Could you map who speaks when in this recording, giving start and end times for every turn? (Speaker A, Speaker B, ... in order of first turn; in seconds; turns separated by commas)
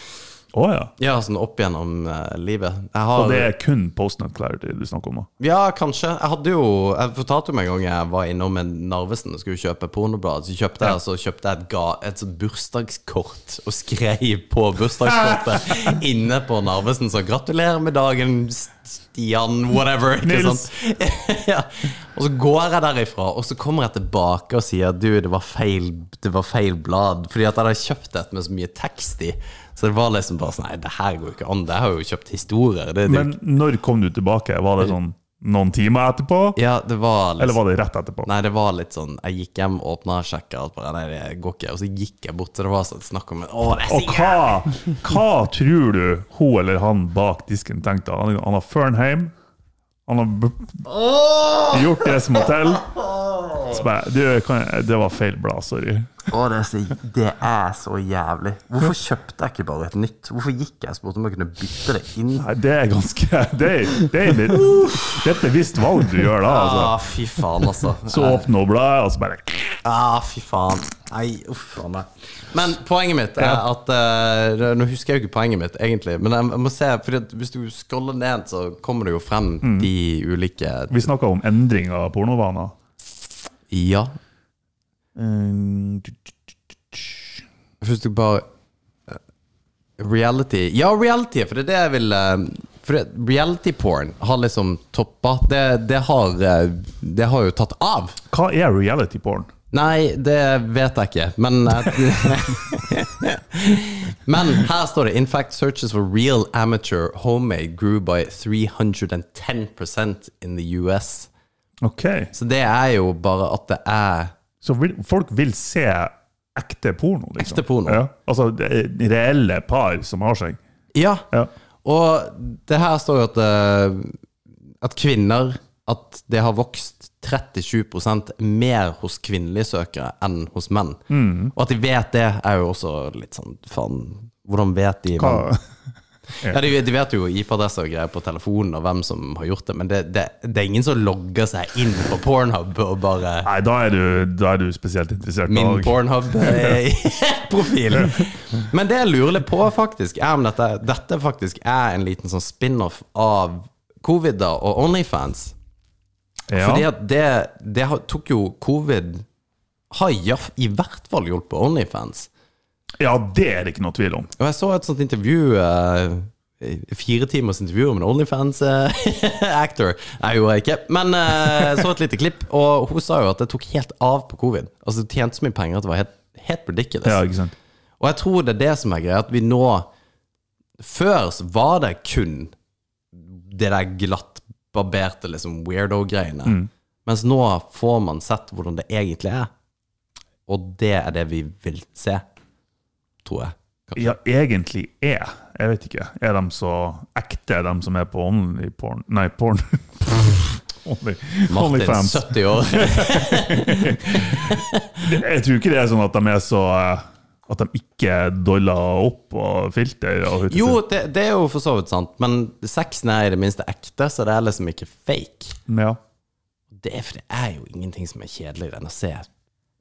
Speaker A: 0.5-0.9, Speaker B: 1.0-3.5, Speaker A: 3.1-5.3, Speaker B: 5.4-33.3, Speaker A: 15.2-15.9, Speaker A: 20.2-20.7, Speaker A: 33.1-36.6, Speaker B: 36.6-37.6, Speaker A: 37.4-38.3, Speaker B: 38.2-44.6, Speaker A: 43.9-49.3, Speaker A: 50.1-50.8, Speaker B: 50.9-53.8, Speaker A: 51.7-52.9, Speaker A: 53.7-56.3, Speaker B: 56.3-62.5, Speaker A: 62.4-67.0, Speaker B: 64.5-65.2, Speaker B: 66.5-68.5, Speaker A: 68.0-69.8, Speaker B: 69.8-81.1, Speaker A: 73.4-73.6, Speaker A: 79.6-79.9, Speaker A: 80.9-82.8, Speaker B: 83.7-84.1, Speaker A: 85.2-86.3, Speaker A: 86.9-87.4, Speaker B: 87.8-88.5, Speaker B: 90.0-98.2, Speaker A: 98.3-99.5, Speaker B: 99.7-111.3, Speaker A: 111.8-112.3, Speaker B: 112.3-114.3, Speaker A: 114.6-120.6, Speaker B: 117.4-118.0, Speaker B: 120.9-121.3, Speaker B: 121.8-124.2, Speaker B: 124.8-131.0, Speaker A: 131.1-131.5, Speaker B: 131.5-135.5, Speaker A: 135.2-135.6, Speaker B: 136.4-143.5, Speaker A: 143.4-146.8, Speaker B: 145.5-155.6, Speaker A: 148.0-148.2, Speaker A: 156.5-156.8, Speaker B: 156.5-159.3, Speaker B: 159.9-162.3, Speaker A: 163.0-164.3, Speaker B: 164.4-177.2, Speaker A: 177.1-177.5, Speaker B: 178.0-179.9, Speaker B: 180.8-182.5, Speaker B: 183.2-189.5, Speaker B: 190.5-192.2, Speaker B: 193.2-194.2, Speaker A: 194.0-210.8, Speaker B: 201.5-204.9, Speaker B: 210.5-215.6, Speaker A: 215.7-216.0, Speaker B: 216.7-219.3